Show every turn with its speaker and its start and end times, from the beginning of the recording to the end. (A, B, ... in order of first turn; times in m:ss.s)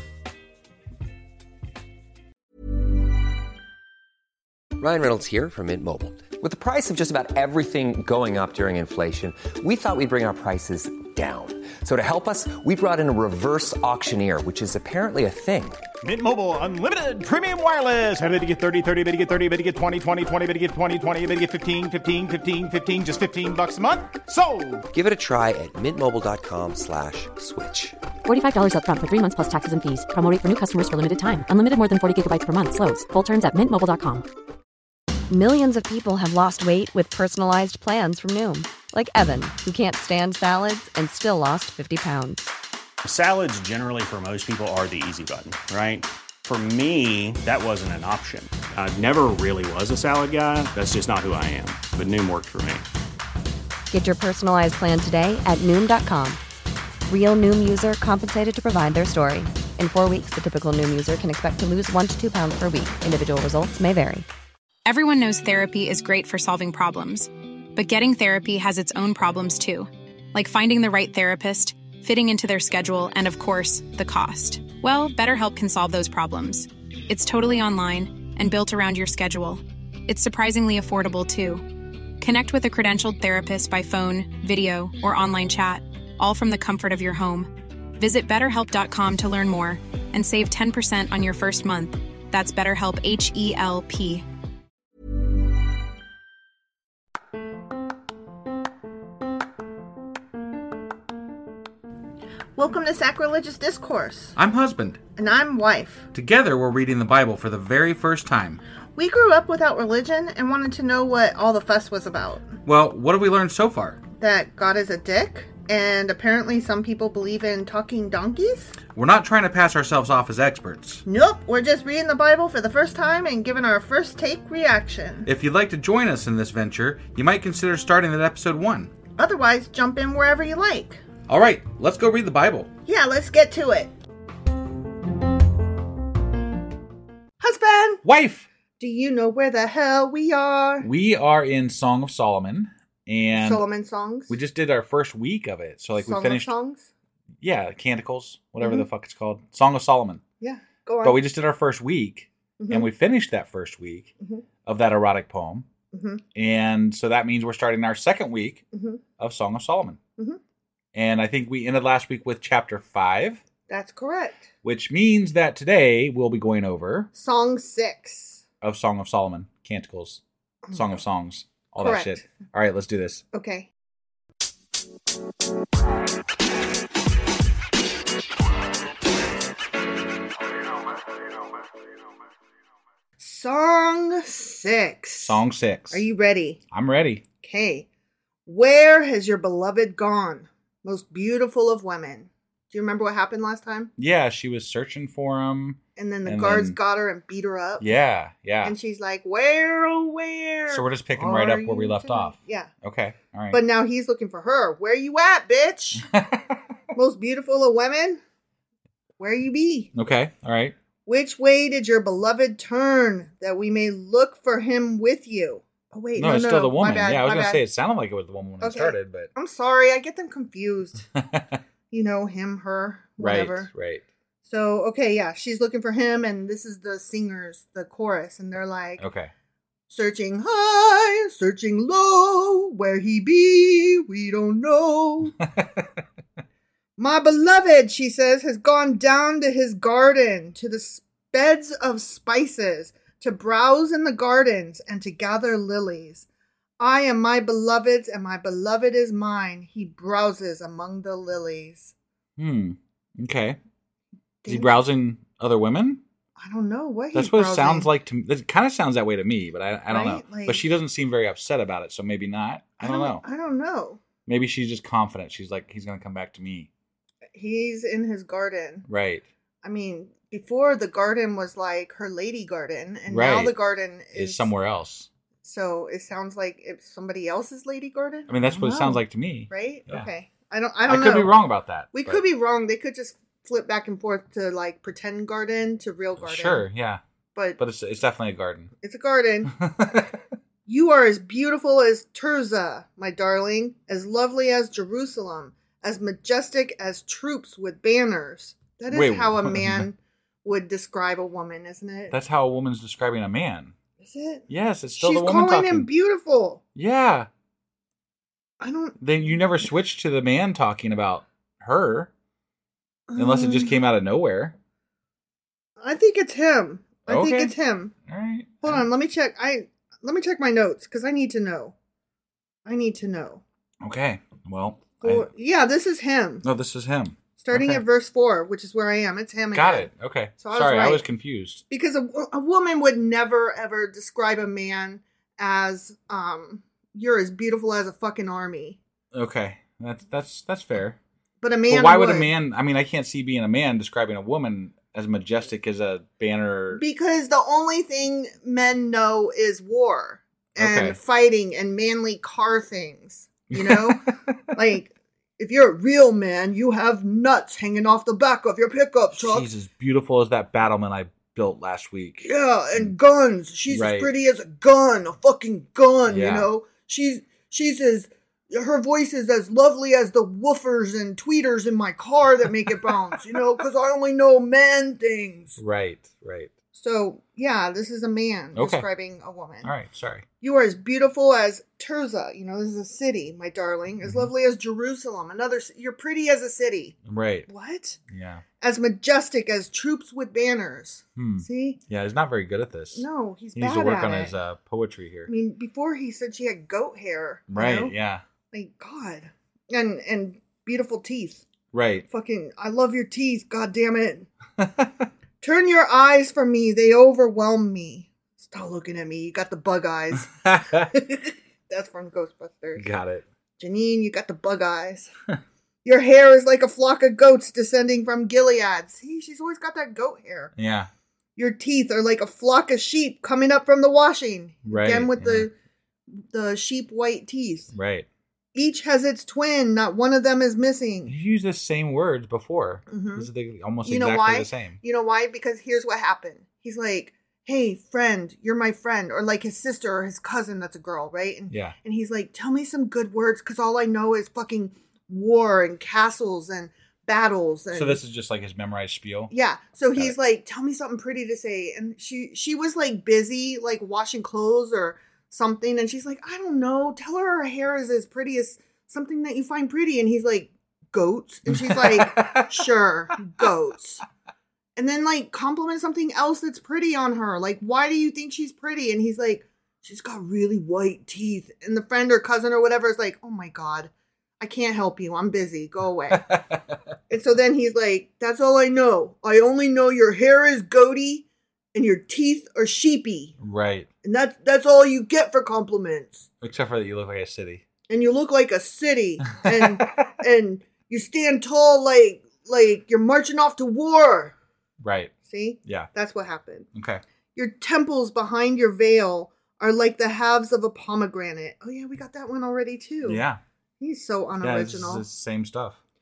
0:04.8-0:15.8 A
0:16.0-0:24.8 B
0:24.9-0:27.9 A
0:28.3-0:34.2 C
0:35.3-0:42.4 D
0:43.0-0:52.8 E
0:53.9-0:56.4 D
0:57.1-1:04.2 D
1:04.8-1:21.6 F
1:22.2-1:34.2 F
1:42.6-1:44.4 G
1:44.4-1:45.0 H
1:45.2-1:46.1 G
1:46.1-1:48.6 H
1:49.0-1:52.6 G
1:52.6-1:54.0 H
1:54.2-1:58.8 G
1:58.9-2:01.0 H
2:01.0-2:05.3 G
2:05.2-2:08.9 H
2:09.2-2:11.0 G
2:11.3-2:12.7 H
2:12.8-2:13.9 G
2:17.4-2:18.0 G
2:18.0-2:18.5 H
2:18.8-2:20.9 G
2:20.8-2:23.6 H
2:23.3-2:24.4 G
2:24.3-2:26.5 H
2:26.0-2:26.9 G
2:27.4-2:30.2 H
2:28.6-2:28.8 G
2:30.4-2:31.2 G
2:31.0-2:34.1 H
2:32.6-2:32.9 G
2:34.6-2:35.7 H
2:35.9-2:36.2 G
2:36.3-2:38.6 H
2:38.7-2:39.0 G
2:39.2-2:40.0 H
2:40.9-2:43.4 H
2:43.7-2:44.5 G
2:44.6-2:47.1 H
2:47.1-2:48.4 G
2:48.6-2:50.2 H
2:50.7-2:51.0 G
2:50.7-2:53.2 H
2:51.8-2:52.2 G
2:53.3-2:53.7 G
3:03.2-3:06.6 G
3:05.2-3:06.0 H
3:06.7-3:07.2 H
3:07.4-3:07.8 G
3:08.4-3:13.9 G
3:14.0-3:16.8 H
3:16.0-3:17.9 G
3:17.8-3:18.7 H
3:18.6-3:22.7 G
3:20.7-3:23.6 H
3:23.5-3:26.0 G
3:26.9-3:28.2 G
3:29.2-3:29.9 G
3:29.9-3:30.7 H
3:31.0-3:37.6 G
3:36.2-3:39.3 H
3:38.6-3:41.1 G
3:41.1-3:41.6 H
3:41.9-3:43.7 G
3:43.2-3:44.0 H
3:44.4-3:49.0 G
3:49.0-3:49.3 H
3:49.9-3:55.4 G
3:57.0-4:06.3 G
4:06.8-4:11.9 G
4:12.4-4:13.6 H
4:14.4-4:14.9 G
4:14.5-4:16.0 H
4:16.4-4:17.9 G
4:17.1-4:23.2 H
4:19.9-4:20.7 G
4:22.8-4:24.0 G
4:24.2-4:26.7 H
4:27.3-4:28.9 G
4:28.8-4:29.2 H
4:29.6-4:34.5 G
4:33.1-4:33.5 H
4:34.1-4:35.1 H
4:35.4-4:41.4 G
4:38.3-4:40.1 H
4:40.8-4:42.2 H
4:41.9-4:46.7 G
4:46.2-4:47.0 H
4:47.3-4:47.6 G
4:47.6-4:48.7 H
4:48.8-4:49.5 G
4:49.5-4:50.0 H
4:50.6-5:02.1 G
4:58.9-4:59.9 H
5:02.1-5:03.7 H
5:04.0-5:06.6 G
5:04.5-5:05.9 H
5:06.8-5:07.3 H
5:08.6-5:09.0 G
5:09.0-5:12.1 H
5:13.1-5:13.8 G
5:13.2-5:14.6 H
5:15.8-5:17.9 G
5:17.1-5:17.5 H
5:18.0-5:18.8 H
5:18.6-5:21.7 G
5:22.6-5:23.4 G
5:23.8-5:25.3 H
5:25.0-5:26.5 G
5:26.4-5:27.8 H
5:27.4-5:31.0 G
5:29.5-5:31.6 H
5:31.7-5:38.8 G
5:39.1-5:41.0 H
5:41.4-5:42.3 G
5:41.7-5:46.8 H
5:46.7-5:59.5 G
5:50.5-5:51.0 H
5:53.5-5:54.4 H
5:59.1-6:02.9 H
6:02.2-6:15.6 G
6:03.7-6:04.1 H
6:06.1-6:06.5 H
6:15.6-6:16.5 H
6:16.7-6:19.7 G
6:18.5-6:18.9 H
6:19.6-6:20.2 H
6:20.4-6:26.9 G
6:27.0-6:27.5 H
6:27.5-6:28.0 G
6:28.1-6:28.4 H
6:28.6-6:31.8 G
6:31.2-6:35.3 H
6:32.9-6:34.3 G
6:35.3-6:37.9 G
6:37.5-6:38.2 H
6:38.5-6:41.4 G
6:41.7-6:42.0 H
6:42.0-6:44.3 G
6:44.6-6:44.9 H
6:45.4-6:52.9 G
6:50.4-6:50.8 H
6:52.8-6:53.2 H
6:53.6-6:55.1 G
6:55.8-7:00.5 G
7:00.5-7:00.9 H
7:01.4-7:05.5 G
7:04.7-7:05.5 H
7:06.2-7:07.7 G
7:07.7-7:08.1 H
7:08.5-7:11.1 G
7:11.1-7:14.8 H
7:12.9-7:13.3 G
7:13.8-7:28.0 G
7:21.5-7:21.7 H
7:27.7-7:29.3 H
7:29.3-7:44.0 G
7:41.5-7:42.5 H
7:44.8-7:56.4 G
7:57.1-8:03.3 G
8:03.4-8:03.9 H
8:04.0-8:06.2 G
8:06.4-8:07.6 H
8:07.9-8:14.3 G
8:09.4-8:09.9 H
8:14.8-8:15.1 H
8:15.2-8:16.7 G
8:16.7-8:17.0 H
8:17.3-8:23.2 G
8:23.0-8:23.4 H
8:23.8-8:25.0 G
8:24.4-8:25.8 H